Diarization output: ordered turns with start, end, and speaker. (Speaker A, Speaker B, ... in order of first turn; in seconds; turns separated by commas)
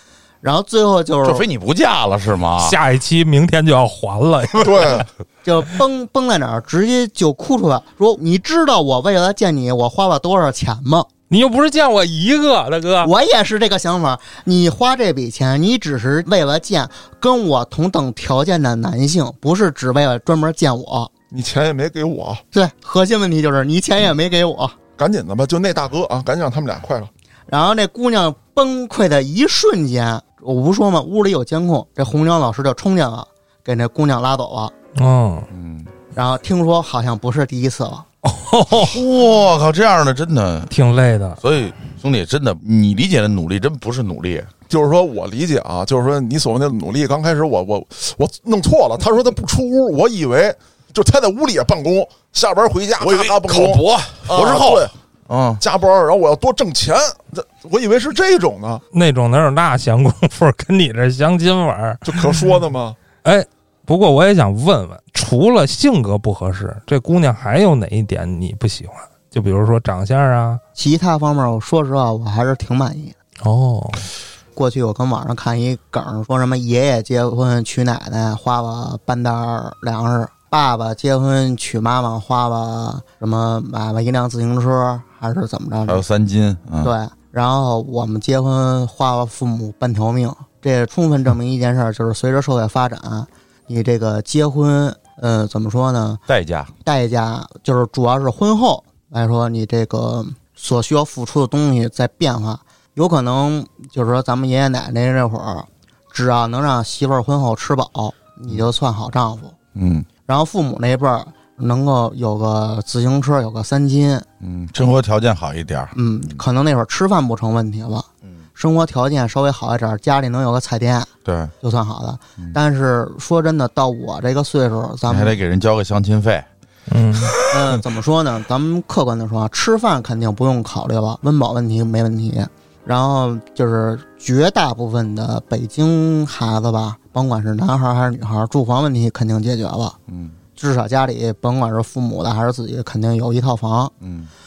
Speaker A: 0.4-1.4, Speaker B: 1.2-2.8, Speaker C: 2.6-5.0, Speaker D: 4.6-5.0, Speaker A: 5.4-11.1, Speaker C: 11.3-13.1, Speaker A: 13.0-21.1, Speaker D: 21.3-22.4, Speaker A: 22.5-24.8, Speaker D: 25.0-27.1, Speaker A: 27.5-34.7, Speaker C: 35.0-35.5, Speaker B: 35.5-35.9, Speaker A: 36.1-38.0, Speaker C: 38.2-39.0, Speaker B: 38.7-40.7, Speaker C: 40.7-41.4, Speaker B: 41.4-44.5, Speaker D: 44.7-54.9, Speaker B: 53.0-55.6, Speaker D: 55.6-58.8, Speaker C: 58.9-62.2, Speaker D: 62.0-63.0, Speaker C: 63.2-70.6, Speaker A: 70.8-73.1, Speaker C: 73.4-74.0, Speaker A: 74.5-86.0, Speaker B: 85.9-86.9, Speaker A: 86.8-96.2, Speaker B: 96.3-96.7, Speaker A: 96.8-109.5, Speaker B: 109.7-110.0, Speaker A: 110.2-114.2, Speaker B: 114.4-116.4, Speaker A: 115.9-121.1, Speaker B: 121.2-121.5, Speaker A: 121.6-125.3, Speaker B: 125.1-126.5, Speaker C: 126.9-127.3, Speaker A: 127.5-139.9, Speaker B: 140.1-140.3, Speaker A: 140.6-143.9, Speaker B: 144.0-144.3